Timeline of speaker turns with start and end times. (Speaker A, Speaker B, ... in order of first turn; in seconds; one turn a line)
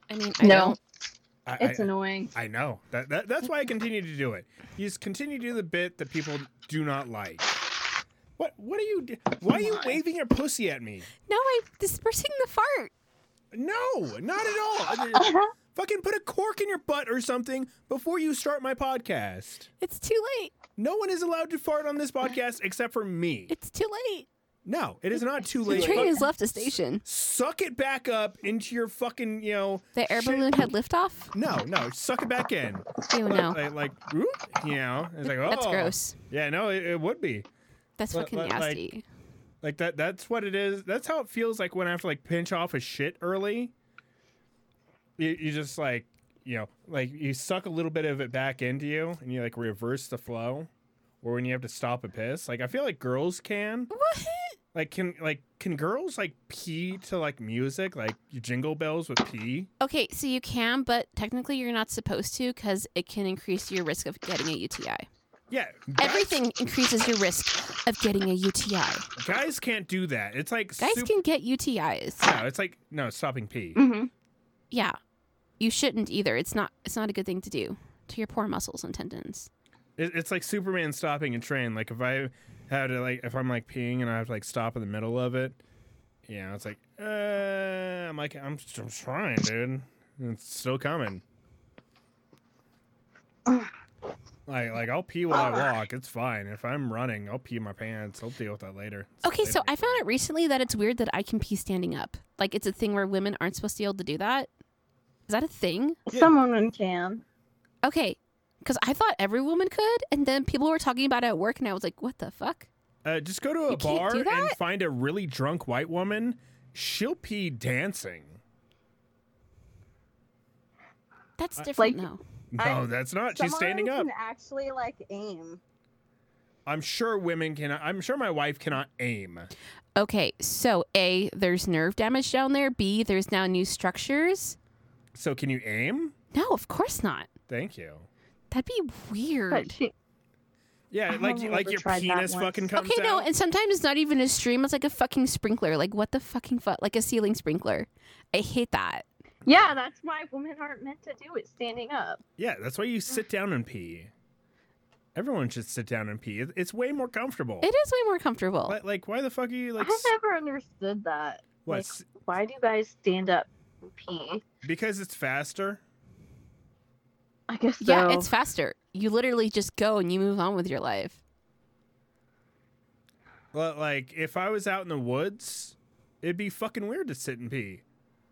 Speaker A: 0.1-0.8
Speaker B: 0.4-0.8
Speaker C: 1.4-7.5
Speaker B: 1.6-2.3
Speaker C: 8.4-11.1
Speaker A: 11.3-12.9
Speaker C: 13.5-19.7
Speaker B: 15.1-15.5
Speaker A: 19.8-20.5
Speaker C: 20.8-23.5
Speaker A: 23.5-24.3
Speaker C: 24.6-30.7
Speaker A: 25.6-27.0
Speaker B: 25.6-26.2
Speaker A: 29.9-31.3
Speaker C: 31.3-37.5
Speaker A: 33.1-33.6
Speaker A: 35.3-36.1
Speaker A: 38.0-39.0
Speaker C: 38.1-38.8
Speaker C: 39.6-43.7
Speaker C: 45.2-50.7
Speaker C: 51.2-53.9
Speaker A: 53.9-54.6
Speaker C: 54.7-59.7
Speaker A: 59.8-65.0
Speaker C: 65.5-66.4
Speaker A: 66.0-69.0
Speaker C: 69.2-71.1
Speaker A: 70.8-72.3
Speaker C: 72.2-73.8
Speaker B: 73.8-74.1
Speaker A: 74.7-75.0
Speaker A: 75.6-79.5
Speaker C: 80.0-85.6
Speaker C: 86.2-91.2
Speaker C: 94.5-100.0
Speaker B: 95.3-95.7
Speaker A: 99.2-104.5
Speaker A: 105.3-106.0
Speaker B: 106.1-107.2
Speaker A: 107.8-112.7
Speaker C: 113.0-118.4
Speaker A: 113.7-114.5
Speaker A: 121.4-122.2
Speaker B: 121.8-122.0
Speaker C: 122.5-124.1
Speaker B: 122.6-125.6
Speaker C: 126.7-129.5
Speaker A: 129.9-134.6
Speaker C: 135.1-136.1
Speaker A: 136.3-137.3
Speaker C: 137.5-138.1
Speaker A: 138.5-139.8
Speaker B: 139.5-139.9
Speaker C: 140.9-143.3
Speaker B: 141.1-142.7
Speaker A: 142.8-149.0
Speaker B: 149.4-152.2
Speaker C: 152.4-154.1
Speaker C: 155.1-157.7
Speaker A: 157.6-158.8
Speaker C: 158.7-160.1
Speaker B: 159.8-164.4
Speaker C: 161.6-162.1
Speaker C: 164.6-165.8
Speaker B: 167.5-168.3
Speaker A: 167.8-171.2
Speaker C: 173.5-177.8